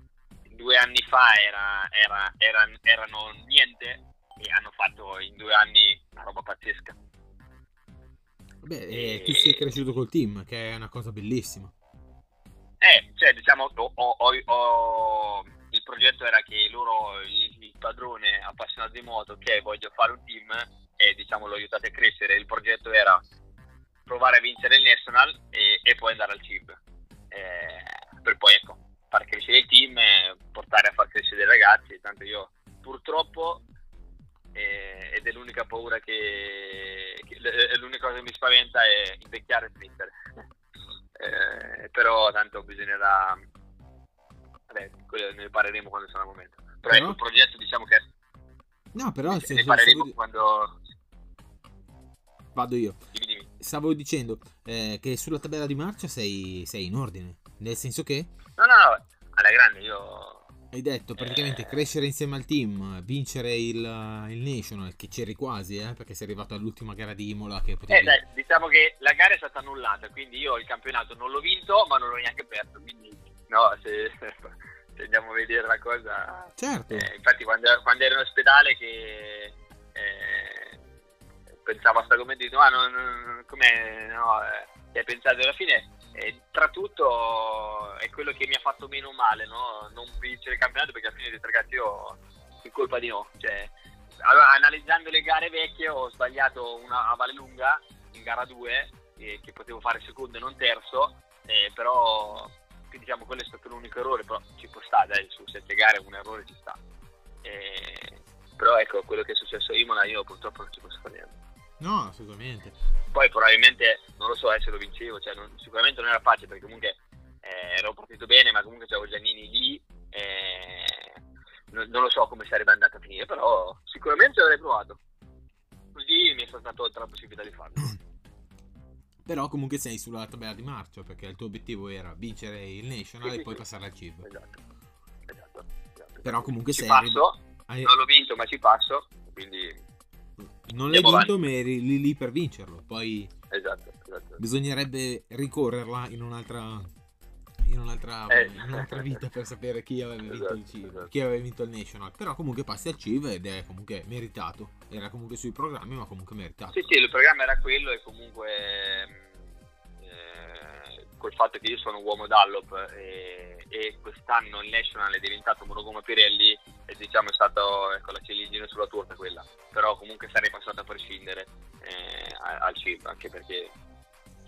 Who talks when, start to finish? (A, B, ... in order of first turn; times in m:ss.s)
0:00.5-0:07.0 A
0:08.6-0:11.7 B
0:08.9-0:09.7 A
0:12.8-0:23.2 A
0:24.1-0:26.8 A
0:27.3-0:33.6 A
0:34.5-0:40.1 A
0:41.2-0:43.4 A
0:44.7-0:48.0 A
0:46.9-0:47.2 B
0:48.9-0:50.1 B
0:49.3-0:50.8 A
0:52.5-0:53.0 B
0:53.1-0:53.5 A
0:53.6-0:58.3 B
0:58.6-1:00.4 A
1:00.7-1:08.2 B
1:01.2-1:01.8 A
1:07.9-1:20.8 A
1:16.6-1:17.1 B
1:21.6-1:33.7 A
1:34.2-1:46.8 A
1:47.4-1:51.4 A
1:51.8-1:52.8 B
1:53.1-2:01.2 A
2:01.7-2:05.0 A
2:05.9-2:08.0 A
2:09.2-2:14.3 B
2:13.2-2:13.6 A
2:14.2-2:14.6 A
2:15.3-2:19.8 A
2:16.2-2:17.9 B
2:20.4-2:23.3 B
2:20.9-2:21.3 A
2:23.5-2:24.4 A
2:24.4-2:26.9 B
2:27.6-2:36.9 B
2:28.3-2:29.2 A
2:30.3-2:31.1 A
2:36.7-2:39.3 A
2:40.0-2:53.7 A